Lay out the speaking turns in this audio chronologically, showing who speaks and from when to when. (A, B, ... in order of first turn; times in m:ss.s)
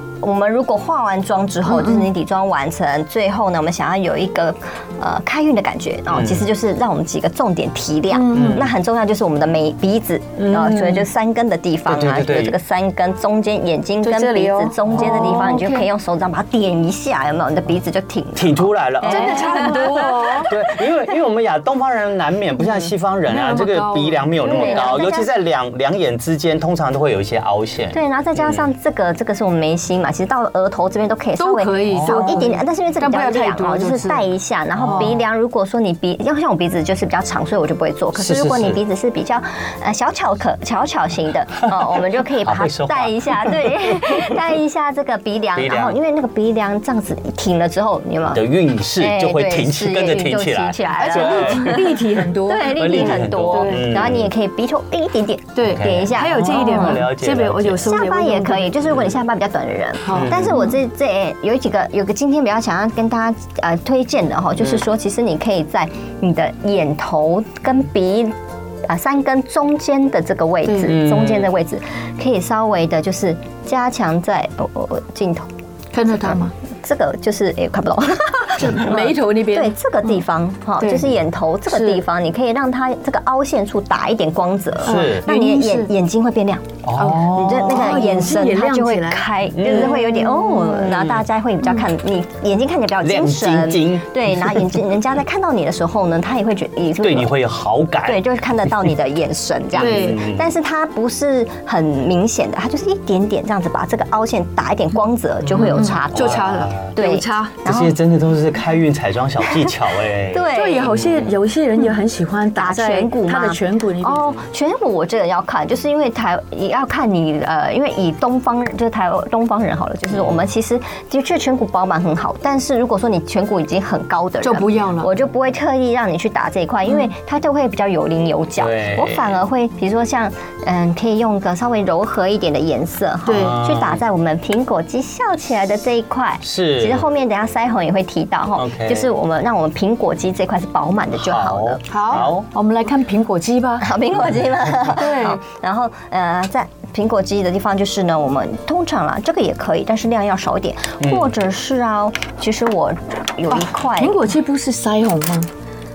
0:00.2-0:20.5 A
0:01.6-0:02.1 B
0:06.1-0:06.5 C
0:08.1-0:08.7 B
0:08.3-0:08.7 C
0:10.5-0:11.0 B
0:11.8-0:12.6 C
0:14.0-0:15.9 B
0:18.3-0:28.6 C
0:19.0-0:20.5 B
0:23.3-0:24.9 B
0:24.4-0:25.3 A
0:27.9-0:48.4 A
0:31.4-0:34.3 B
0:31.9-0:32.4 C
0:34.8-0:35.1 C
0:34.9-0:35.2 B
0:38.2-0:38.8 C
0:42.4-0:43.7 C
0:45.6-0:46.0 C
0:48.3-0:52.0 C
0:49.0-0:51.9 A
0:51.0-0:53.9 B
0:52.4-0:57.0 A
0:52.6-0:54.3 C
0:55.6-0:58.7 B
0:55.6-0:57.9 C
0:57.8-1:15.5 A
0:58.9-0:59.2 C
1:00.0-1:00.7 B
1:00.1-1:00.6 C
1:10.6-1:10.9 B
1:10.9-1:11.5 C
1:15.9-1:16.5 B
1:16.2-1:37.3 A
1:18.6-1:20.2 B
1:20.8-1:21.1 B
1:21.7-1:22.0 B
1:24.8-1:25.9 B
1:24.8-1:25.3 C
1:26.8-1:28.0 C
1:27.0-1:31.0 B
1:29.5-1:30.0 C
1:30.8-1:31.1 C
1:33.0-1:34.8 C
1:37.0-1:38.2 C
1:38.0-1:48.0 A
1:39.7-1:40.5 C
1:39.8-1:40.2 B
1:45.4-1:46.9 C
1:45.7-1:47.6 B
1:47.6-1:51.3 C
1:50.2-1:51.0 A
1:50.5-1:54.4 B
1:52.6-2:22.3 A
2:00.1-2:00.4 C
2:04.4-2:05.1 B
2:08.6-2:09.4 C
2:13.2-2:13.6 B
2:13.4-2:14.0 C
2:16.4-2:17.0 C
2:18.6-2:19.1 C
2:21.1-2:22.5 C
2:21.9-2:23.9 B
2:23.8-2:34.2 A
2:24.4-2:24.7 C
2:24.9-2:25.4 B
2:31.0-2:31.3 C
2:33.5-2:35.5 B